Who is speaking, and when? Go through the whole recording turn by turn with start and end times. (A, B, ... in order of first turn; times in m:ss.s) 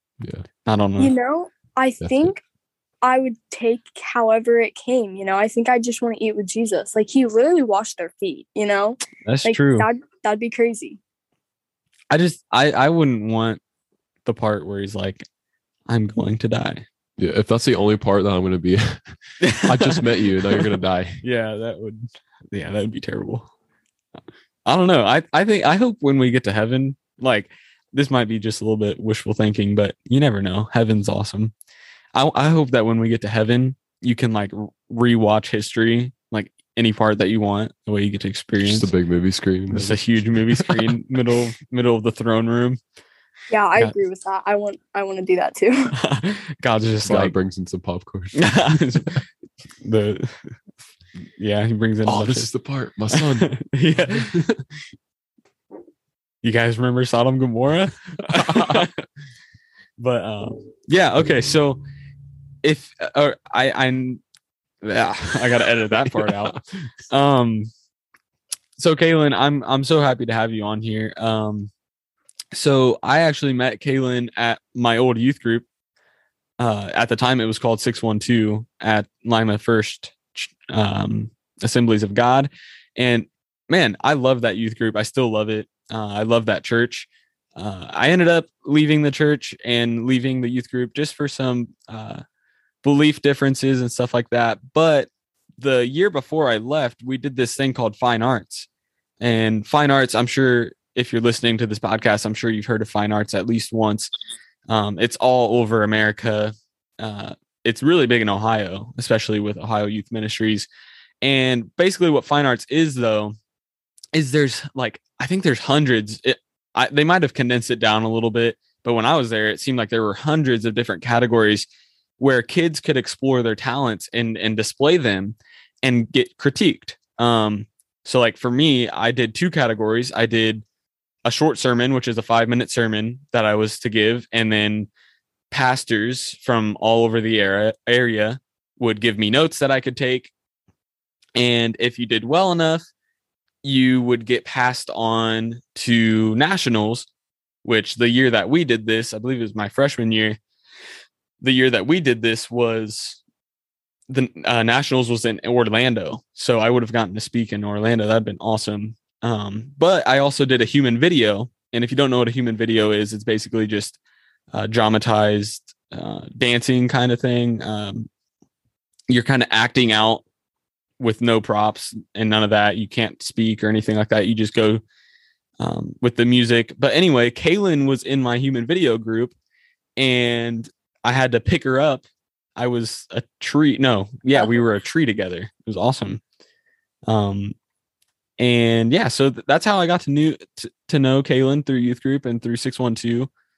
0:00.7-0:01.1 A
0:01.0-0:02.4 B
0:02.0-0:02.3 C
0:03.0-0:11.0 B
0:09.2-0:09.9 A
0:12.1-0:13.6 A
0:14.2-0:15.2 A
0:15.9-0:16.9 A
0:17.2-0:21.2 C
0:19.4-0:20.7 A
0:21.2-0:23.5 A
0:24.7-0:31.5 A
0:32.1-0:38.9 A
0:38.6-0:40.9 C
0:39.7-0:42.8 A
0:43.5-0:46.0 B
0:46.0-0:47.4 A
0:47.0-0:49.0 C
0:48.4-0:49.2 A
0:49.8-0:50.6 A
0:51.4-0:52.5 A
0:52.0-0:53.5 C
0:53.1-0:54.5 A
0:54.1-0:54.5 C
0:56.4-0:58.9 A
0:58.3-0:58.9 C
1:00.0-1:01.8 A
1:02.6-1:04.2 A
1:04.8-1:07.7 A
1:06.1-1:06.4 C
1:08.8-1:11.7 A
1:12.5-1:15.6 A
1:16.6-1:32.2 A
1:32.8-1:38.7 A
1:39.2-1:44.1 A
1:44.7-1:50.7 A
1:51.2-1:53.4 A
1:54.1-2:01.7 A
2:02.2-2:10.6 A
2:11.2-2:14.9 A
2:15.5-2:20.3 A
2:21.4-2:22.9 A
2:23.6-2:27.1 A
2:27.6-2:30.4 A
2:31.4-2:33.2 A
2:34.1-2:44.0 A
2:44.5-2:48.1 A
2:49.1-2:50.2 A
2:51.0-2:54.8 A
2:55.6-2:59.4 A
3:00.0-3:02.0 A
3:02.6-3:06.2 A
3:07.1-3:07.6 A
3:08.4-3:13.3 A